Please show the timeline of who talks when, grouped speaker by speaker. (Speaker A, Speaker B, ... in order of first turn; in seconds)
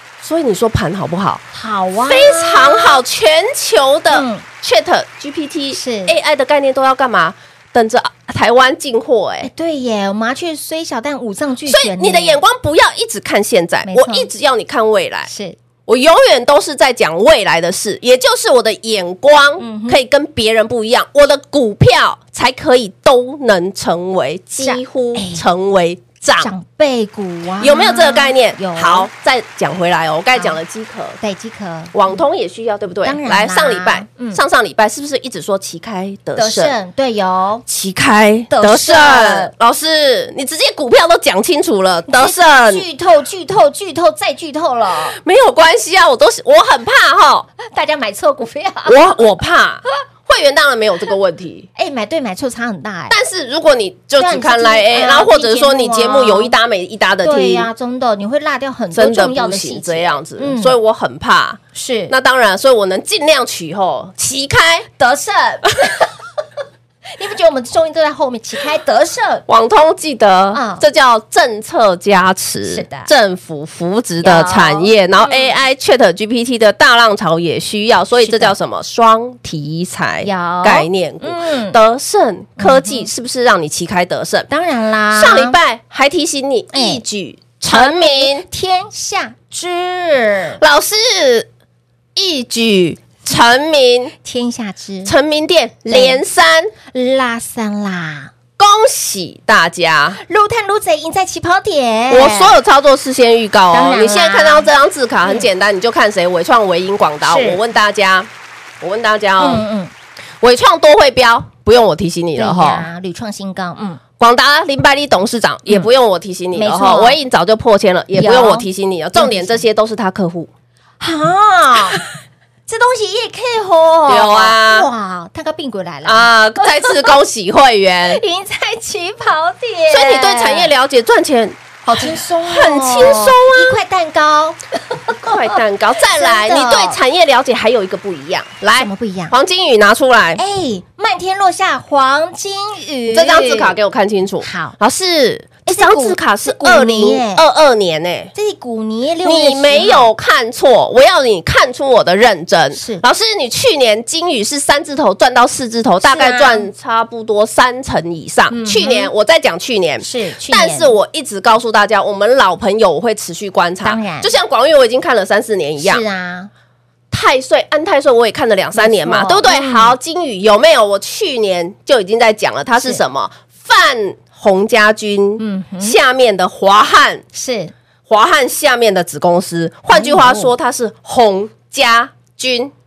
Speaker A: 0.2-1.4, 2.0-9.5, 11.7-15.3, 15.9-26.5, 27.6-31.2, 31.9-36.8, 37.7-42.8, 45.2-47.5, 48.9-51.7, 53.1-57.7, 58.9-64.9, 69.5-84.5, 85.1-88.5, 90.6-91.5, 92.2-94.1, 95.1-96.7, 98.6-100.2, 102.1-108.3, 108.8-109.7, 110.4-112.9, 114.2-120.5, 124.1-124.9, 126.0-128.2, 129.9-133.8, 135.2-140.4, 143.1-148.3, 149.2-166.0, 167.1-177.2, 178.1-182.7
Speaker B: 1.5-3.0, 4.1-4.5, 5.7-6.2, 9.4-12.4, 13.9-14.3, 15.3-15.6, 19.6-20.0, 24.6-25.4, 26.4-29.1, 31.2-32.2, 33.0-34.4, 36.4-37.6, 38.5-39.5, 42.1-45.2, 47.6-49.1, 51.8-53.2, 54.2-56.5, 57.2-60.8, 61.8-62.1, 65.0-66.1, 67.2-69.5, 70.5-70.8, 72.7-73.1, 74.2-75.6, 78.2-78.5, 80.2-81.8, 82.6-83.1, 84.5-85.6, 86.7-87.0, 87.7-90.6, 94.2-95.1, 95.9-96.2, 96.9-98.3, 100.2-102.6, 103.7-104.7, 105.2-105.5, 107.2-107.6, 109.4-109.9, 112.4-114.0, 116.5-117.2, 118.2-119.7, 121.0-122.0, 122.7-127.1, 128.1-130.7, 131.9-135.6, 136.1-137.0, 138.8-139.3, 140.4-143.8, 144.4-144.8, 145.7-147.4, 148.3-150.1, 152.7-153.0, 156.0-156.7, 158.5-159.1, 160.0-160.9, 163.8-164.3, 165.8-166.5, 168.8-170.0, 175.4-176.0, 177.3-177.7, 179.9-180.5